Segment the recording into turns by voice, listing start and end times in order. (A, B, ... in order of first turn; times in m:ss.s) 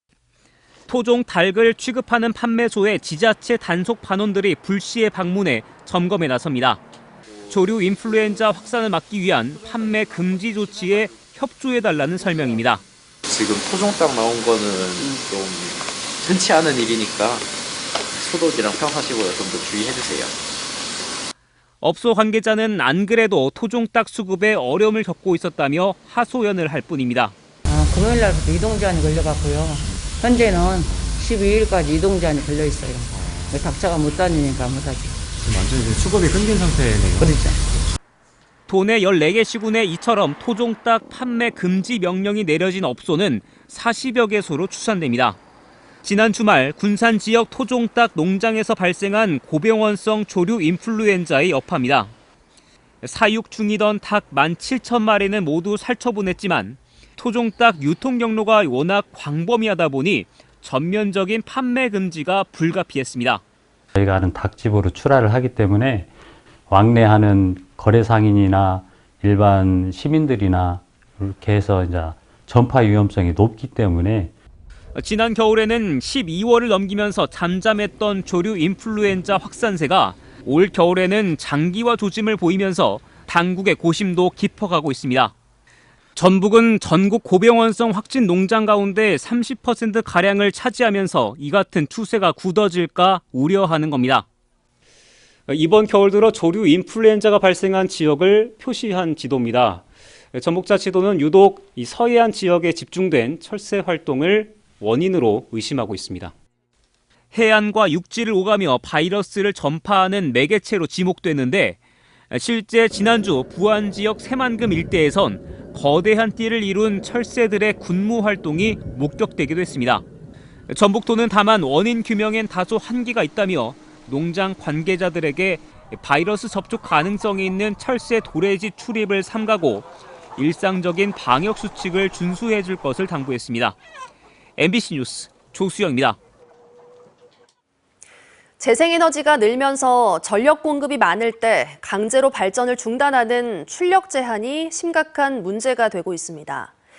0:00.9-0:06.8 A
0:07.5-0:12.8 A
0:13.3-0:17.5 B
0:18.1-0:20.4 B
0:21.8-0:27.3 A
0:27.6-0:35.2 C
0:37.2-0:37.6 C
0:38.7-0:45.4 A
0:46.0-0:52.1 A
0:53.0-1:03.4 A
1:03.9-1:06.1 D
1:06.7-1:14.3 D
1:15.0-1:25.3 A
1:26.2-1:34.3 A
1:35.5-1:46.3 A
1:47.3-1:51.8 A
1:52.3-2:00.0 A
2:00.7-2:13.8 A
2:14.6-2:16.2 A
2:18.6-2:26.7 E